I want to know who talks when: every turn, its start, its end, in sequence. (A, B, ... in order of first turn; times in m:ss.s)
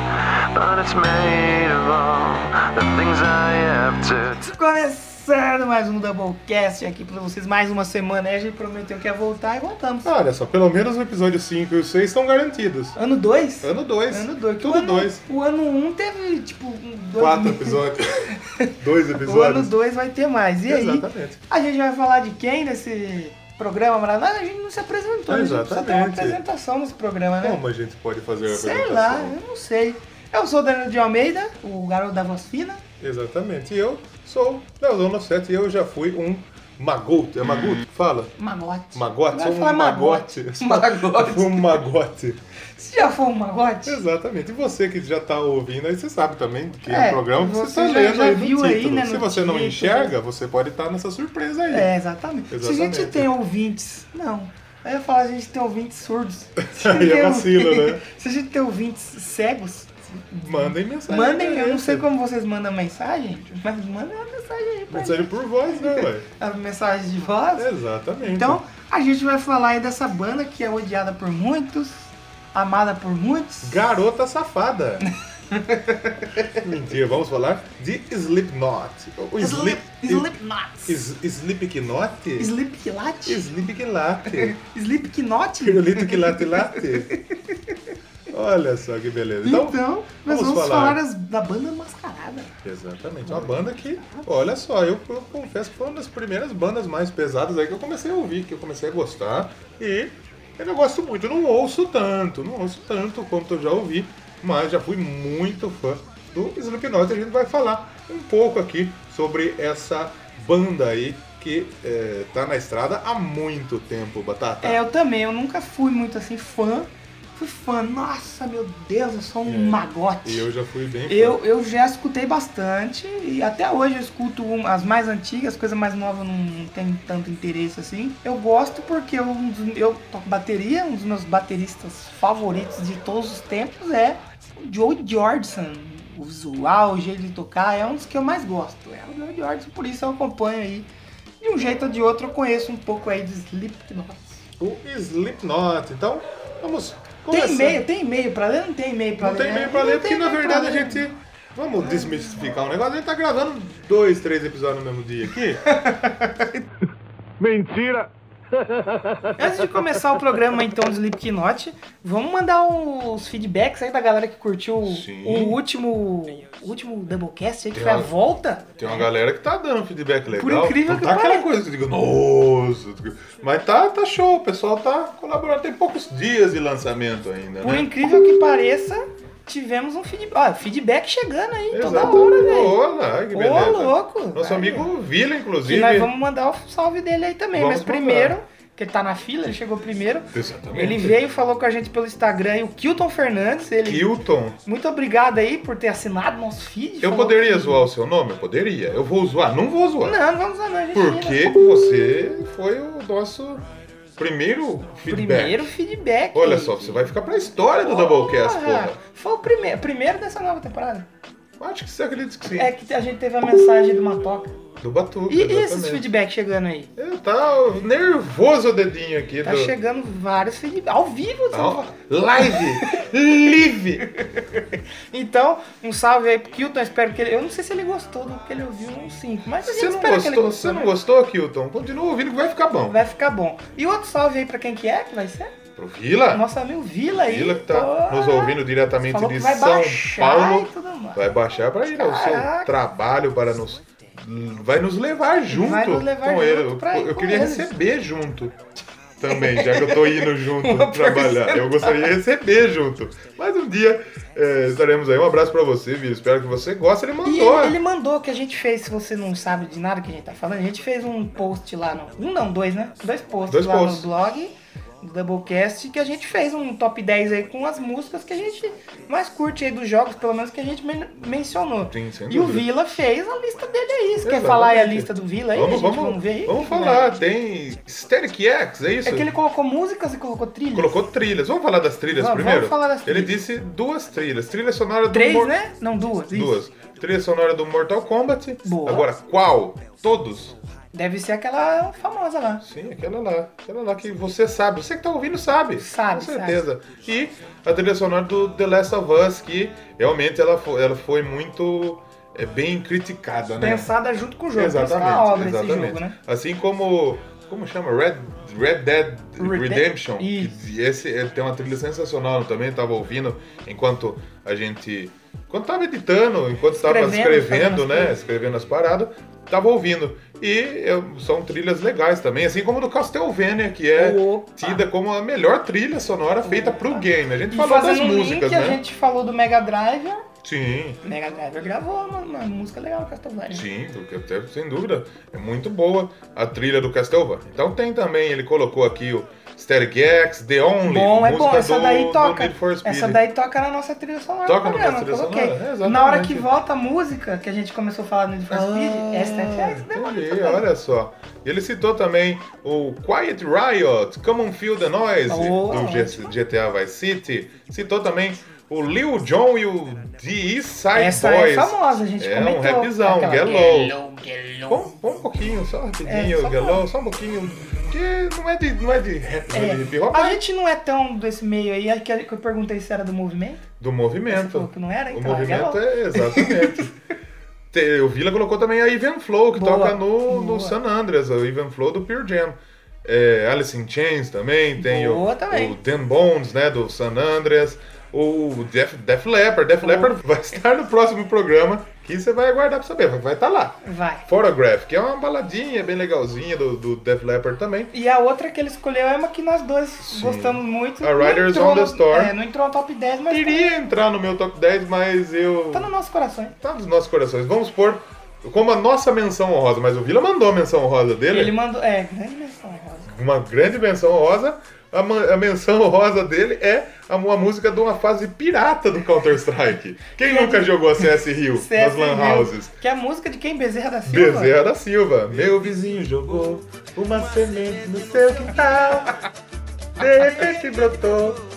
0:00.5-0:04.4 A
0:04.3-0:10.1 B
0:10.0-0:13.0 C
0:13.0-0:27.6 B
0:13.6-0:15.2 C
0:17.2-0:18.2 C
0:18.8-0:19.7 C
0:20.7-0:21.4 C
0:25.3-0:26.4 C
0:27.4-0:29.4 C
0:28.5-0:32.8 B
0:33.0-0:38.3 C
0:38.4-0:41.8 B
0:38.9-0:42.4 C
0:42.8-0:44.0 B
0:43.8-0:51.9 C
0:46.9-0:50.1 B
0:51.7-1:07.7 B
0:52.5-0:53.3 C
0:56.6-0:58.0 C
1:00.4-1:02.0 C
1:04.9-1:06.2 C
1:07.6-1:08.6 C
1:08.2-1:13.8 B
1:13.6-1:15.1 C
1:15.5-1:16.5 B
1:16.5-1:20.3 C
1:19.4-1:21.0 B
1:20.8-1:22.5 C
1:22.4-1:23.5 B
1:23.2-1:24.6 C
1:24.3-1:27.7 B
1:25.6-1:27.1 C
1:28.3-1:31.0 C
1:29.4-1:32.5 B
1:32.6-1:54.8 C
1:33.2-1:34.3 B
1:54.6-2:00.5 B
1:59.4-2:01.4 C
2:01.1-2:20.9 B
2:21.4-2:24.4 B
2:24.6-2:27.8 C
2:27.3-2:31.1 B
2:29.2-2:35.6 C
2:31.8-2:32.4 B
2:35.7-2:36.4 B
2:37.4-2:39.8 D
2:39.4-2:49.1 B
2:44.8-2:45.6 C
2:47.7-2:48.1 C
2:48.8-2:58.1 C
2:50.3-2:51.5 B
2:57.6-3:02.8 B
3:01.7-3:06.1 C
3:03.3-3:04.9 B
3:05.6-3:17.8 B
3:07.5-3:08.4 C
3:10.3-3:11.2 C
3:13.8-3:14.6 C
3:17.0-3:20.2 C
3:20.0-3:21.9 B
3:20.9-3:23.6 C
3:24.2-3:25.7 C
3:25.1-3:27.2 B
3:26.3-3:29.0 C
3:27.8-3:31.1 B
3:31.6-3:32.7 C
3:32.6-3:34.6 B
3:34.8-3:36.0 C
3:35.3-3:36.9 B
3:37.0-3:39.7 C
3:39.4-3:41.8 B
3:41.5-3:44.1 C
3:42.4-3:43.0 B
3:44.2-3:50.9 B
3:49.6-3:53.0 C
3:52.9-3:55.5 B
3:55.8-3:56.4 C
3:56.3-4:01.2 B
3:57.1-4:08.6 C
4:02.0-4:02.7 B
4:05.5-4:07.7 B
4:09.2-4:17.8 C
4:09.2-4:12.1 B
4:17.2-4:37.2 B
4:23.5-4:24.1 C
4:31.8-4:32.7 C
4:34.2-4:39.3 C
4:39.0-4:41.0 B
4:40.7-4:45.6 C
4:42.1-4:43.3 B
4:45.1-4:46.6 B
4:46.3-4:50.6 C
4:48.6-4:49.1 B
4:50.9-4:52.6 B
4:52.6-5:03.9 C
4:55.8-4:56.6 B
5:03.6-5:06.1 B
5:04.5-5:28.8 C
5:09.4-5:10.5 B
5:16.8-5:18.1 B
5:23.9-5:24.8 B
5:26.4-5:30.2 B
5:30.4-5:31.0 C
5:31.0-5:33.6 B
5:33.5-5:43.2 C
5:40.8-5:50.6 B
5:44.4-5:46.5 C
5:48.5-6:04.0 C
5:55.3-5:56.3 B
6:00.9-6:04.7 B
6:04.6-6:10.4 C
6:06.0-6:06.8 B
6:09.5-6:13.6 B
6:13.8-6:16.9 C
6:14.3-6:16.9 B
6:17.7-6:37.9 C
6:19.5-6:20.8 B
6:24.8-6:25.8 B
6:29.8-6:30.1 B
6:33.8-6:34.2 B
6:37.9-6:43.8 B
6:40.0-6:42.3 C
6:43.3-6:45.9 C
6:45.7-6:46.5 B
6:46.6-6:51.6 C
6:51.3-6:53.1 B
6:53.0-7:02.7 C
7:00.2-7:00.8 B
7:01.5-7:04.6 B
7:04.0-7:09.1 C
7:10.0-7:11.4 C